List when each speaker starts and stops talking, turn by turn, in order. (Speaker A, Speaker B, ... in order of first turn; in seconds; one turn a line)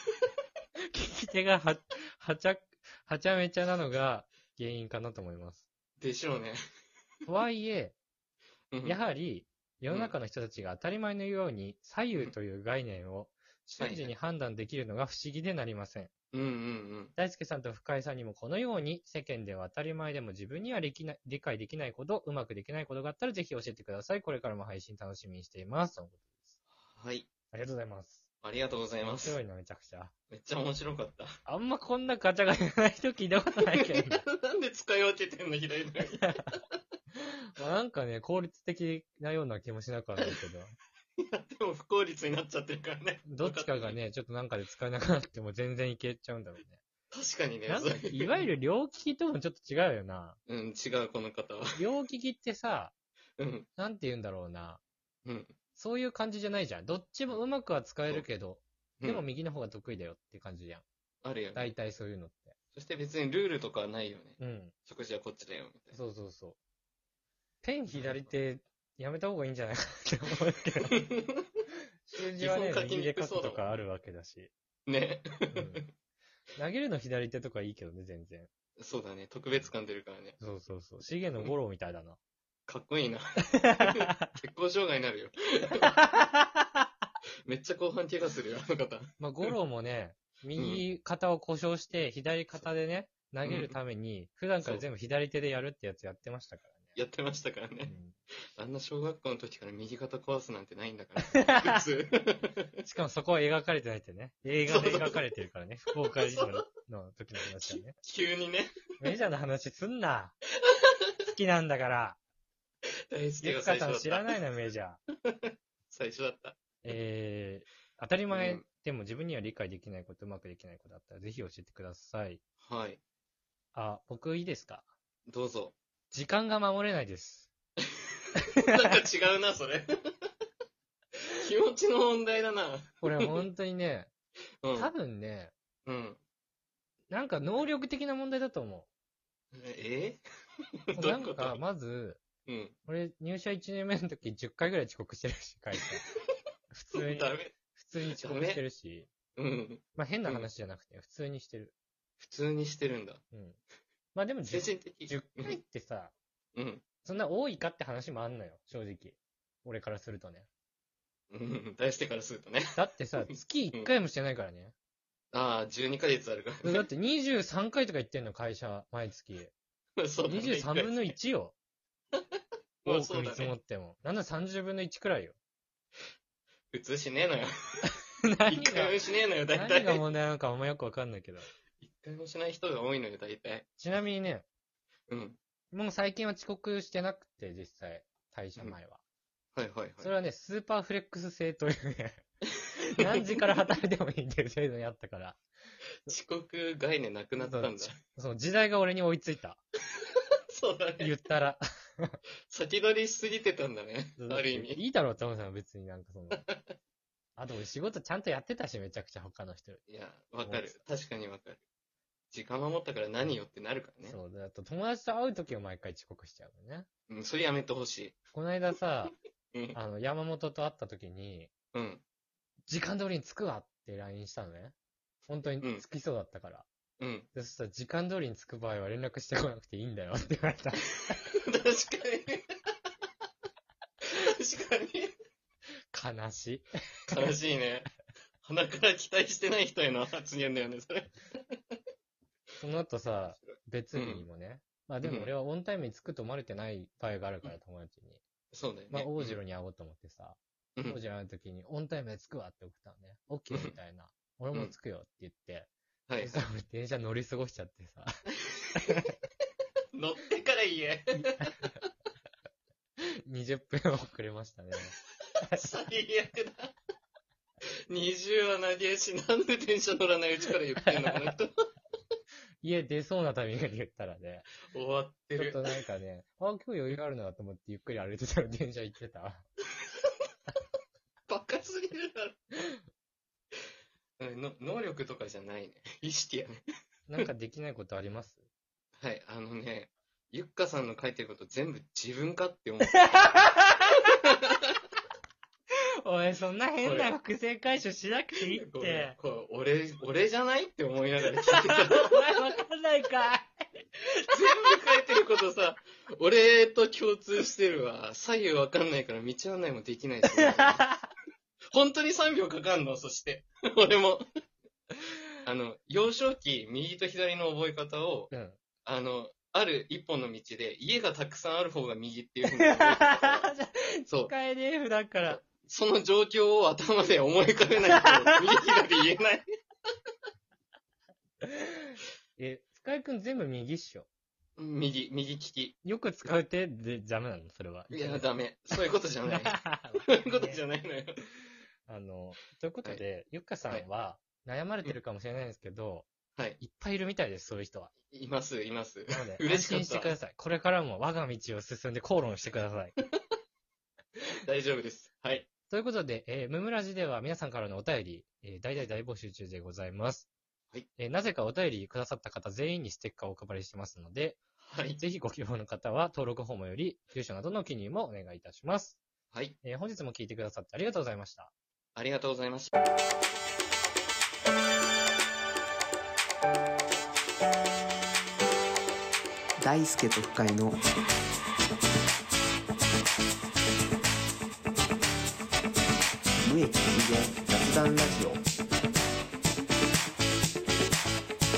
Speaker A: 0.9-5.7
Speaker B: 6.0-6.6
Speaker A: 7.2-8.0
Speaker B: 8.7-9.0
Speaker A: 8.8-16.1
Speaker B: 13.8-14.1
Speaker B: 16.3-17.1
Speaker A: 17.2-26.6
Speaker B: 26.9-27.3
Speaker A: 27.5-28.2
Speaker B: 28.4-29.4
Speaker A: 29.0-30.1
Speaker B: 30.3-31.3
Speaker A: 31.4-34.2
Speaker B: 33.7-36.4
Speaker A: 37.5-40.7
Speaker B: 41.2-43.9
Speaker A: 43.3-46.8
Speaker B: 47.1-48.5
Speaker A: 47.7-50.4
Speaker B: 50.5-51.7
Speaker A: 51.8-52.9
Speaker B: 53.4-53.7
Speaker A: 53.8-54.8
Speaker B: 55.2-55.5
Speaker A: 55.8-60.8
Speaker B: 61.2-61.7
Speaker A: 61.5-62.5
Speaker B: 62.7-66.0
Speaker A: 64.4-64.7
Speaker A: 65.9-66.6
Speaker A: 67.6-71.0
Speaker B: 67.9-68.2
Speaker B: 70.9-71.4
Speaker A: 72.1-74.5
Speaker B: 72.4-73.7
Speaker B: 74.9-75.9
Speaker A: 75.5-75.8
Speaker A: 76.6-78.5
Speaker B: 78.8-80.4
Speaker A: 80.4-82.2
Speaker B: 82.7-86.0
Speaker A: 86.0-86.6
Speaker B: 87.5-89.4
Speaker A: 89.2-97.0
Speaker B: 90.6-90.8
Speaker B: 93.4-93.7
Speaker B: 96.9-97.9
Speaker A: 97.8-98.2
Speaker B: 98.6-102.8
Speaker A: 101.5-101.8
Speaker A: 102.8-108.0
Speaker B: 104.7-105.2
Speaker B: 106.1-106.7
Speaker B: 107.6-108.7
Speaker A: 109.0-110.3
Speaker B: 110.6-111.1
Speaker A: 111.3-112.2
Speaker B: 113.1-114.3
Speaker A: 113.4-115.0
Speaker B: 115.2-116.6
Speaker A: 116.8-122.4
Speaker B: 118.3-118.6
Speaker B: 122.6-123.0
Speaker A: 123.7-124.8
Speaker B: 125.3-125.7
Speaker A: 126.1-127.5
Speaker B: 128.6-130.3
Speaker B: 131.4-133.3
Speaker A: 133.0-134.1
Speaker B: 134.6-134.9
Speaker A: 134.7-135.5
Speaker B: 135.8-136.2
Speaker A: 137.1-138.9
Speaker B: 139.5-140.2
Speaker B: 140.9-141.6
Speaker A: 140.9-142.2
Speaker B: 142.4-142.8
Speaker A: 142.9-146.0
Speaker A: 146.7-149.1
Speaker B: 146.9-147.5
Speaker B: 148.1-148.6
Speaker B: 149.3-150.5
Speaker A: 149.9-151.7
Speaker B: 152.2-153.2
Speaker A: 153.3-153.6
Speaker A: 154.1-156.1
Speaker B: 154.4-155.6
Speaker B: 156.5-156.8
Speaker A: 157.0-160.5
Speaker B: 161.3-162.8
Speaker A: 162.7-164.7
Speaker B: 163.3-163.9
Speaker B: 165.3-166.8
Speaker A: 166.6-169.5
Speaker B: 170.0-171.1
Speaker A: 170.3-171.5
Speaker B: 172.8-173.6
Speaker A: 172.8-175.3
Speaker B: 176.7-177.9
Speaker A: 178.2-178.9
Speaker B: 178.5-180.0
Speaker A: 179.5-181.5
Speaker B: 181.8-183.7
Speaker A: 183.8-184.4
Speaker B: 185.1-185.4
Speaker A: 185.7-189.0
Speaker B: 189.5-190.1
Speaker A: 190.0-192.2
Speaker A: 192.9-195.4
Speaker B: 193.0-193.4
Speaker B: 196.1-198.0
Speaker A: 197.4-199.6
Speaker B: 200.5-201.1
Speaker A: 201.0-202.2
Speaker B: 202.5-204.8
Speaker A: 204.2-206.4
Speaker B: 206.3-206.7
Speaker A: 207.3-209.8
Speaker B: 209.9-211.6
Speaker A: 210.4-210.8
Speaker B: 212.3-214.2
Speaker A: 214.1-216.9
Speaker B: 217.1-218.2
Speaker A: 218.3-219.1
Speaker A: 219.7-221.5
Speaker B: 221.7-222.0
Speaker A: 222.7-224.7
Speaker A: 225.3-226.7
Speaker B: 227.0-227.3
Speaker A: 227.3-231.2
Speaker B: 231.4-232.4
Speaker B: 234.1-235.1
Speaker A: 235.9-236.7
Speaker B: 237.1-237.9
Speaker B: 238.4-241.6
Speaker A: 242.6-248.2
Speaker B: 243.1-244.2
Speaker B: 245.0-245.3
Speaker B: 248.5-249.4
Speaker A: 248.9-255.7
Speaker B: 256.1-256.4
Speaker A: 256.2-258.1
Speaker B: 258.5-259.1
Speaker B: 259.9-261.6
Speaker A: 263.3-264.9
Speaker B: 265.4-266.7
Speaker B: 267.9-271.6
Speaker A: 272.6-274.5
Speaker B: 274.7-275.6
Speaker A: 275.4-279.4
Speaker B: 281.3-282.4
Speaker B: 284.2-286.6
Speaker A: 287.1-288.4
Speaker B: 289.0-293.0
Speaker A: 292.9-294.0
Speaker B: 294.3-294.7
Speaker A: 296.0-299.1
Speaker B: 296.8-297.1
Speaker B: 298.4-302.2
Speaker A: 301.5-304.2
Speaker B: 304.3-310.9
Speaker A: 310.4-310.9
Speaker B: 311.7-314.2
Speaker B: 315.4-318.3
Speaker A: 318.3-318.6
Speaker B: 318.8-323.5
Speaker A: 322.6-325.4
Speaker B: 324.1-324.3
Speaker B: 325.3-329.4
Speaker A: 331.4-334.1
Speaker B: 334.6-335.8
Speaker A: 335.8-338.3
Speaker B: 337.9-341.2
Speaker A: 339.3-340.6
Speaker A: 341.9-346.1
Speaker A: 346.6-347.9
Speaker B: 348.1-350.2
Speaker A: 349.1-352.9
Speaker B: 354.4-355.5
Speaker A: 355.7-360.3
Speaker A: 361.0-364.4
Speaker B: 364.6-365.0
Speaker A: 365.0-369.0
Speaker B: 369.3-369.6
Speaker A: 369.6-371.5
Speaker B: 371.9-372.7
Speaker C: 379.6-380.8
Speaker C: 386.4-388.4